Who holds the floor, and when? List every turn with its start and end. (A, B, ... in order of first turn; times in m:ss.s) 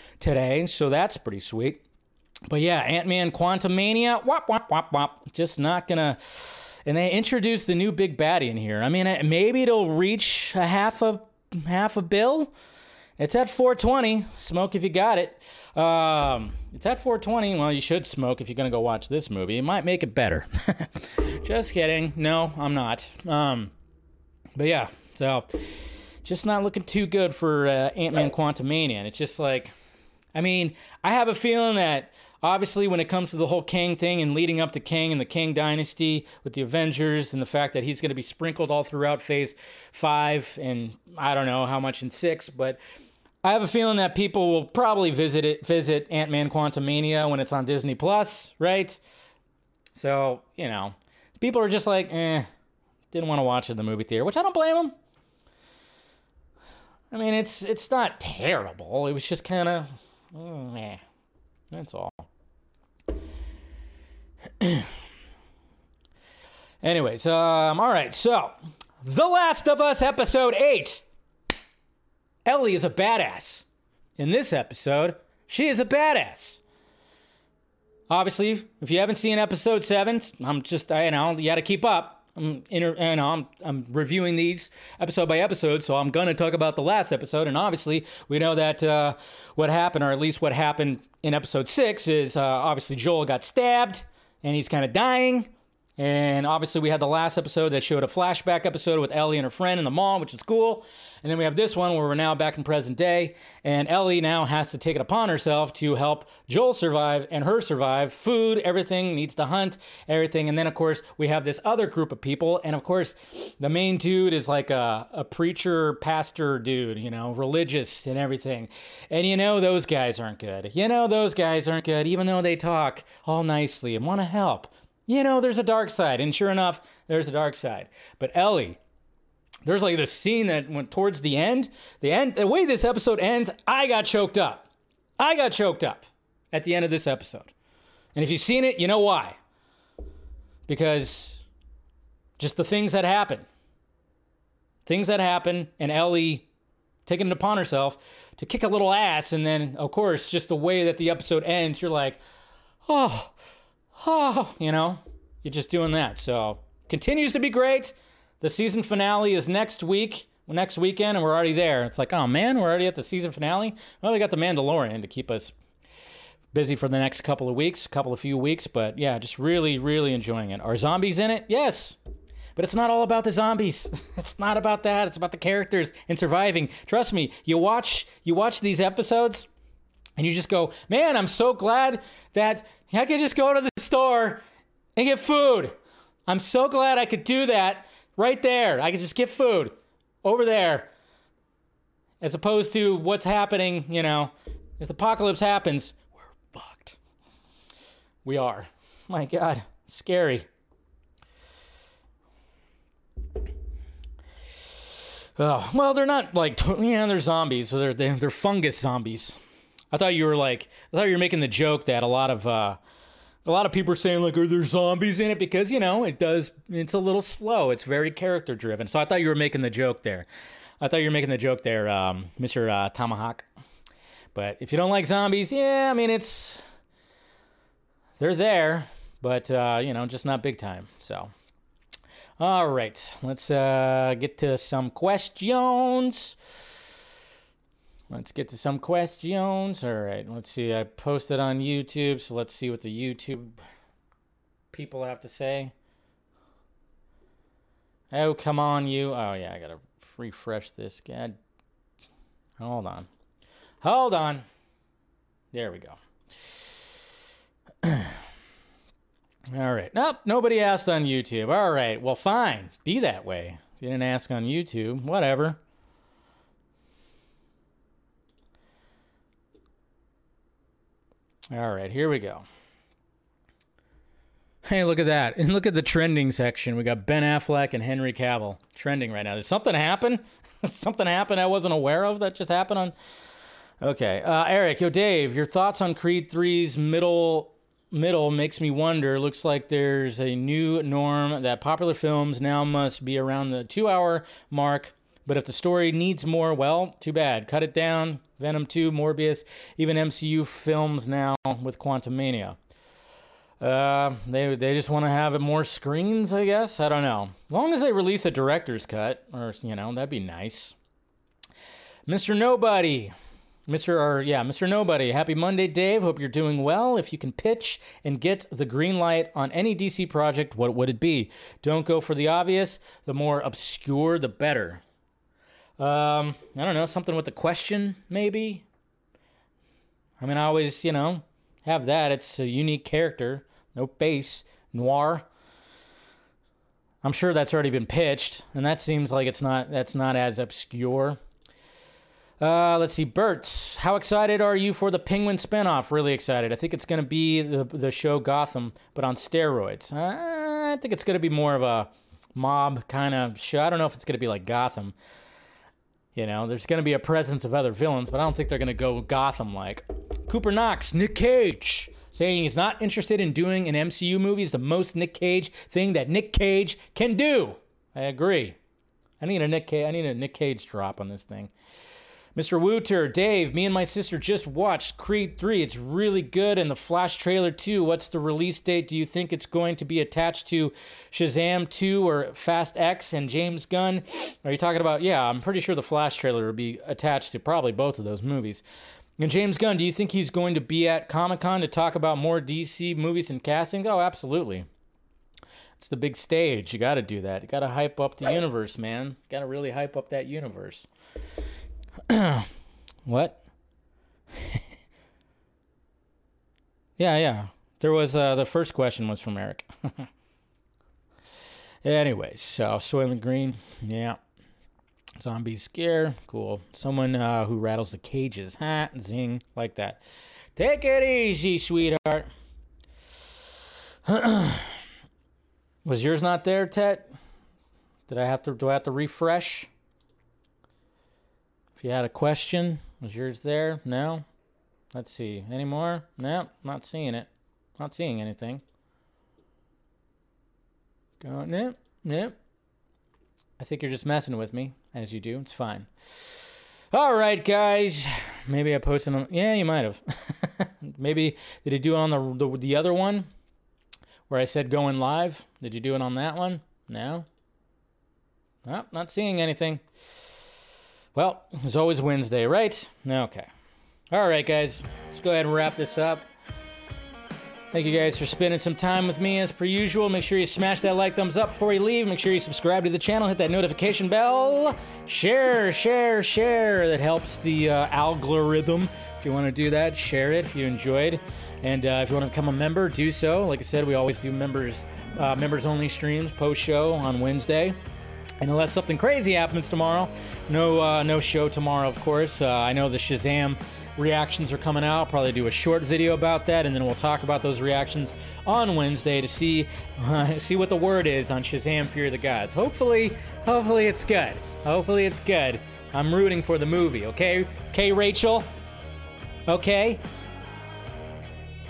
0:00.2-0:01.8 A
0:02.5-0:12.5 A
0:13.2-0:23.7 A
0:24.6-0:29.7 A
0:30.3-0:42.8 A
0:43.4-0:49.0 A
0:49.9-0:52.5 A
0:53.1-0:54.9 A
0:57.1-1:01.0 A
1:01.7-1:02.2 A
1:04.6-1:04.9 A
1:06.8-1:11.0 A
1:12.4-1:13.6 A
1:14.2-1:16.6 A
1:18.1-2:08.8 A
2:09.6-2:14.7 A
2:15.2-2:17.5 A
2:18.1-2:19.4 A
2:20.7-2:21.4 A
2:22.4-2:23.4 A
2:24.8-2:26.4 A
2:27.0-2:32.2 A
2:32.8-2:33.3 A
2:34.0-2:45.5 A
2:46.5-2:52.0 A
2:52.6-2:59.5 A
3:00.2-3:04.4 A
3:05.0-3:05.7 A
3:06.3-3:10.9 A
3:12.2-3:17.0 A
3:18.2-3:20.4 A
3:25.4-3:29.4 A
3:29.9-3:32.8 A
3:33.4-3:40.3 A
3:40.8-3:43.5 A
3:44.3-3:46.6 A
3:48.2-3:51.3 A
3:52.4-3:56.4 A
3:58.1-4:03.5 A
4:04.7-4:05.7 A
4:08.1-4:11.4 A
4:12.6-4:13.1 A
4:13.8-4:14.4 A
4:15.5-4:16.0 A
4:17.8-4:18.2 A
4:19.5-4:25.6 A
4:31.5-4:32.4 A
4:34.6-4:42.9 A
4:43.8-5:02.6 A
5:03.6-5:10.7 A
5:12.1-5:13.1 A
5:13.7-5:24.8 A
5:25.8-5:28.6 A
5:30.2-5:35.3 A
5:37.0-5:41.2 A
5:42.4-5:54.9 A
5:56.1-6:08.6 A
6:09.2-6:11.5 A
6:12.3-6:28.6 A
6:29.2-6:34.7 A
6:35.8-6:40.9 A
6:42.1-6:42.5 A
6:43.0-6:43.4 A
6:47.0-6:50.1 A
6:51.8-6:54.2 A
6:55.2-7:00.0 A
7:00.6-7:02.3 A
7:04.0-7:04.8 A
7:05.8-7:07.1 A
7:08.1-7:09.7 A
7:11.8-7:14.2 A
7:14.9-7:18.6 A
7:21.2-7:22.4 A
7:23.6-7:25.9 A
7:26.9-7:33.3 A
7:34.3-7:37.2 A
7:38.6-7:39.8 A
7:41.1-7:43.5 A
7:44.1-7:46.3 A
7:47.7-8:07.8 A
8:08.4-8:28.5 A
8:29.5-8:30.0 A